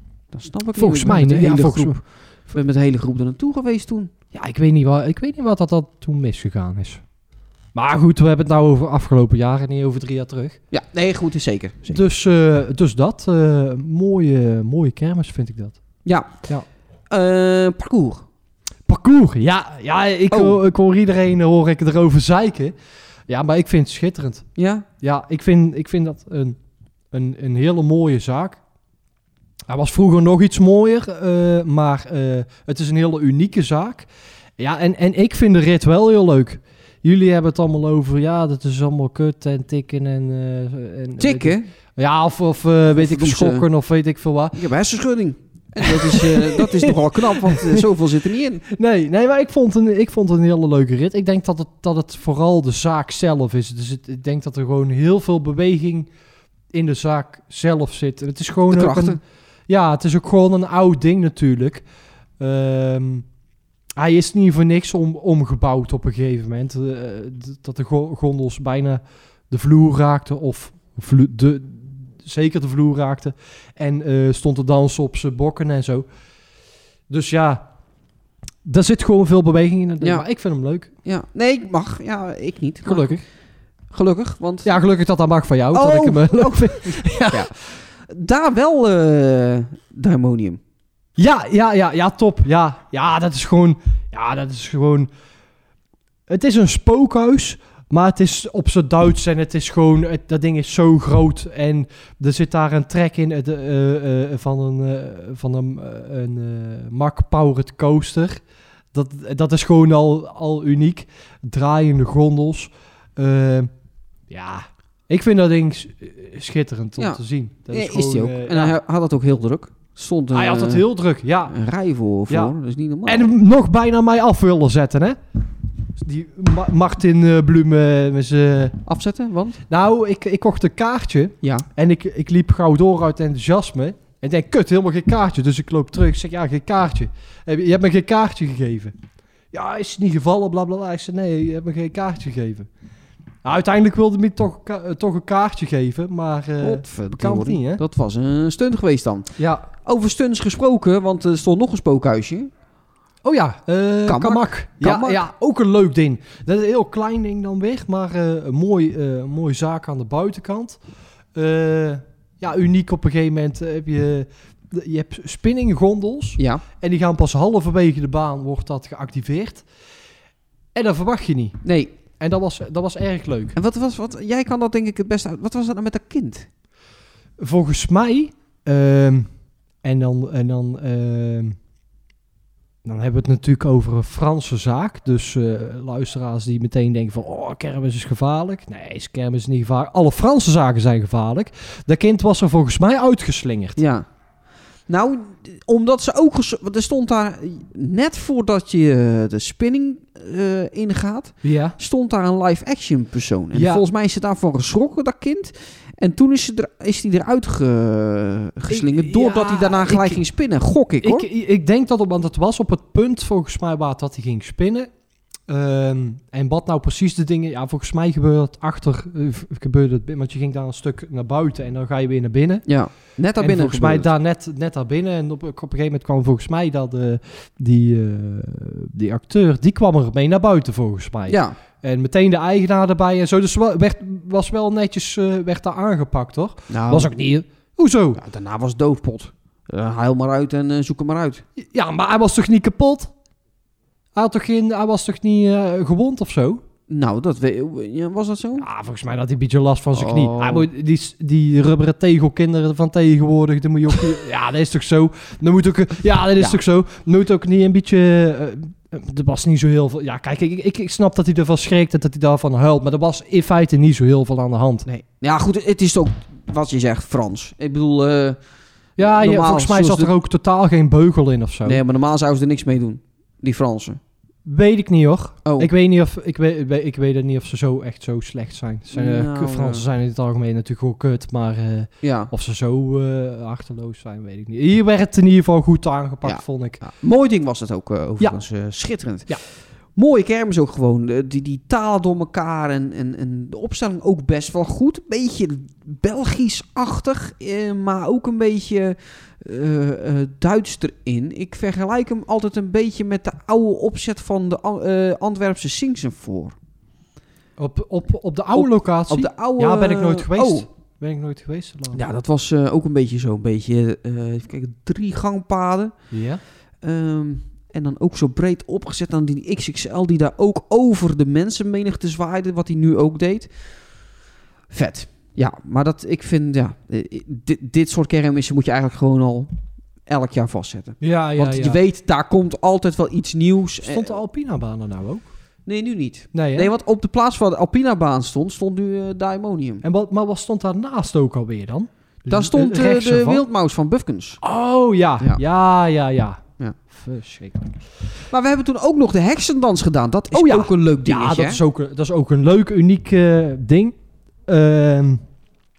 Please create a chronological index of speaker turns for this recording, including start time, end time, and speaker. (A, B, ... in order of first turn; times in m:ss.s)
0:00.3-0:04.1 A
0:00.8-0:02.0 B
0:04.3-0:07.0 B
0:07.7-0:10.6 B
0:10.7-0:12.0 A
0:11.9-0:15.8 B
0:16.0-0:16.4 A
0:17.1-0:18.2 A
0:18.9-0:22.8 B
0:20.3-0:20.6 A
0:23.3-0:24.5 B
0:24.6-0:24.9 A
0:25.0-0:26.6 B
0:27.1-0:28.6 B
0:29.7-0:44.6 B
0:41.2-0:41.7 A
0:42.9-0:43.7 A
0:44.5-0:48.7 A
0:45.8-0:47.8 B
0:48.7-0:56.1 B
0:56.7-1:01.8 B
0:58.7-0:59.2 A
1:02.4-1:03.3 B
1:04.0-1:16.1 B
1:17.1-1:17.7 B
1:18.6-1:20.9 B
1:21.0-1:23.2 A
1:22.8-1:23.2 B
1:23.9-1:24.8 A
1:24.6-1:27.5 B
1:25.7-1:30.6 A
1:31.2-1:35.1 B
1:36.3-1:48.4 B
1:48.9-1:53.7 B
1:54.3-1:58.8 B
1:57.7-2:00.8 A
2:00.3-2:01.6 B
2:01.5-2:03.3 A
2:02.3-2:02.5 B
2:03.1-2:05.2 B
2:06.0-2:08.8 B
2:08.9-2:09.6 A
2:09.7-2:18.9 B
2:19.5-2:22.7 B
2:23.4-2:27.8 B
2:26.6-2:29.3 A
2:29.4-2:29.7 B
2:29.8-2:32.5 A
2:33.2-2:40.8 B
2:34.1-2:35.2 A
2:41.3-2:49.7 B
2:46.4-2:46.6 A
2:50.7-2:51.6 B
2:51.6-2:51.9 A
2:52.2-2:53.6 B
2:53.6-2:56.5 A
2:57.4-2:59.3 B
2:59.8-3:01.6 B
3:02.8-3:13.8 B
3:13.8-3:14.1 A
3:14.9-3:31.3 A
3:21.4-3:21.8 B
3:23.5-3:23.8 B
3:28.7-3:30.2 B
3:31.0-3:34.9 B
3:35.5-3:42.7 B
3:42.7-3:44.1 A
3:43.4-3:58.2 B
3:51.3-3:51.6 A
3:56.7-3:57.1 A
3:58.2-4:01.4 A
4:01.6-4:03.1 B
4:04.1-4:06.6 B
4:06.9-4:08.7 A
4:08.6-4:24.9 B
4:09.9-4:10.7 A
4:24.9-4:28.4 A
4:29.0-4:31.8 B
4:29.0-4:30.1 A
4:31.6-4:34.0 A
4:34.4-4:46.8 B
4:35.4-4:35.7 A
4:38.9-4:39.9 A
4:42.0-4:42.3 A
4:46.2-4:49.4 A
4:50.0-5:06.6 A
5:07.6-5:12.0 B
5:08.5-5:10.7 A
5:11.9-5:15.9 A
5:16.1-5:16.4 B
5:16.8-5:23.6 A
5:24.7-5:29.5 A
5:30.1-5:34.2 A
5:31.0-5:31.8 B
5:33.8-5:35.3 B
5:35.7-5:39.8 A
5:36.3-5:36.7 B
5:39.8-5:43.4 B
5:42.3-5:44.4 A
5:44.4-5:47.8 B
5:48.3-5:51.6 A
5:50.3-5:55.2 B